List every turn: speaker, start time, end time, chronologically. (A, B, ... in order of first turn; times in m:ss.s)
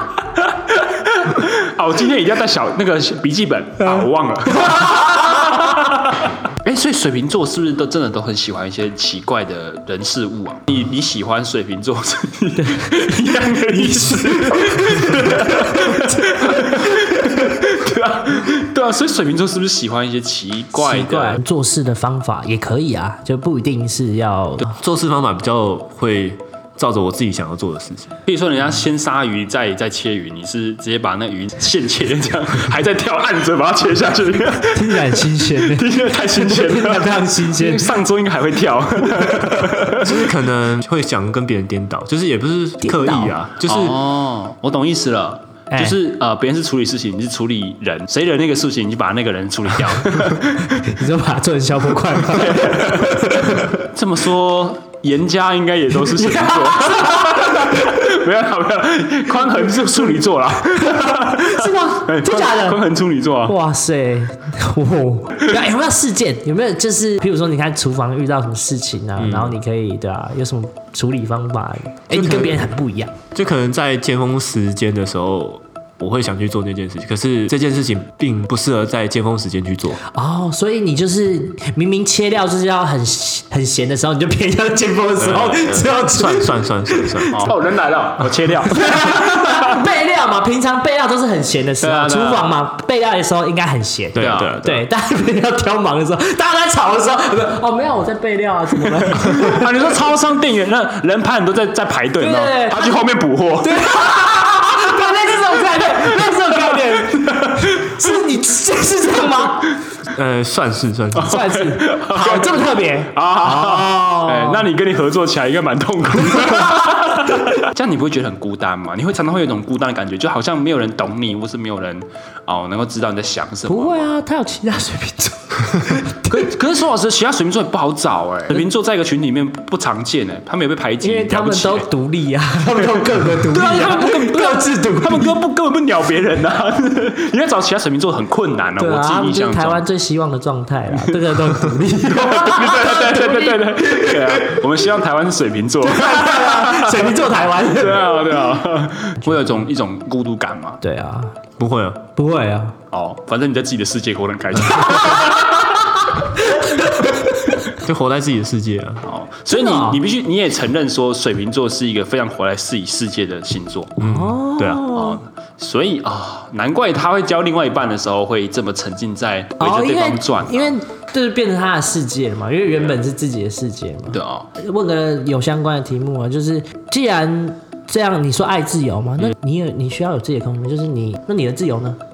0:00.4-0:21.4 A
0:04.6-0:05.3 B
0:12.6-0:13.1 B
0:13.6-0:16.1 B
0:20.7-0:24.7 B
0:24.6-0:28.1 C
0:28.2-0:40.0 A
0:34.7-0:37.9 B
0:40.0-0:44.0 C
0:42.8-0:43.3 B
0:43.7-0:50.7 A
0:45.7-0:46.0 B
0:50.6-0:53.7 B
0:52.1-1:03.5 A
0:56.2-0:57.8 B
1:00.7-1:02.8 B
1:03.4-1:13.1 B
1:09.2-1:09.6 C
1:12.1-1:12.7 C
1:13.3-1:20.0 C
1:20.1-1:27.5 B
1:25.2-1:27.5 C
1:27.3-1:29.7 A
1:28.7-1:39.7 B
1:31.8-1:32.5 A
1:34.1-1:34.8 C
1:34.2-1:34.5 A
1:39.3-1:43.8 A
1:42.2-1:42.8 B
1:43.6-1:49.8 B
1:46.3-1:48.0 A
1:50.0-1:51.4 C
1:51.2-2:04.1 A
1:51.2-1:54.7 B
2:03.7-2:06.5 B
2:06.3-2:11.9 A
2:11.0-2:15.4 B
2:13.2-2:19.8 A
2:18.8-2:24.6 B
2:21.0-2:27.2 A
2:25.8-2:28.2 B
2:27.7-2:30.8 A
2:30.8-2:31.3 B
2:31.6-2:32.1 C
2:32.1-2:32.7 B
2:32.9-2:35.6 A
2:34.7-2:37.5 B
2:37.7-2:39.0 C
2:39.0-2:44.0 A
2:39.5-2:40.0 B
2:44.0-2:44.9 C
2:44.0-2:45.2 B
2:44.9-2:50.8 A
2:49.6-3:02.0 B
2:52.7-2:53.0 A
2:54.1-2:54.5 A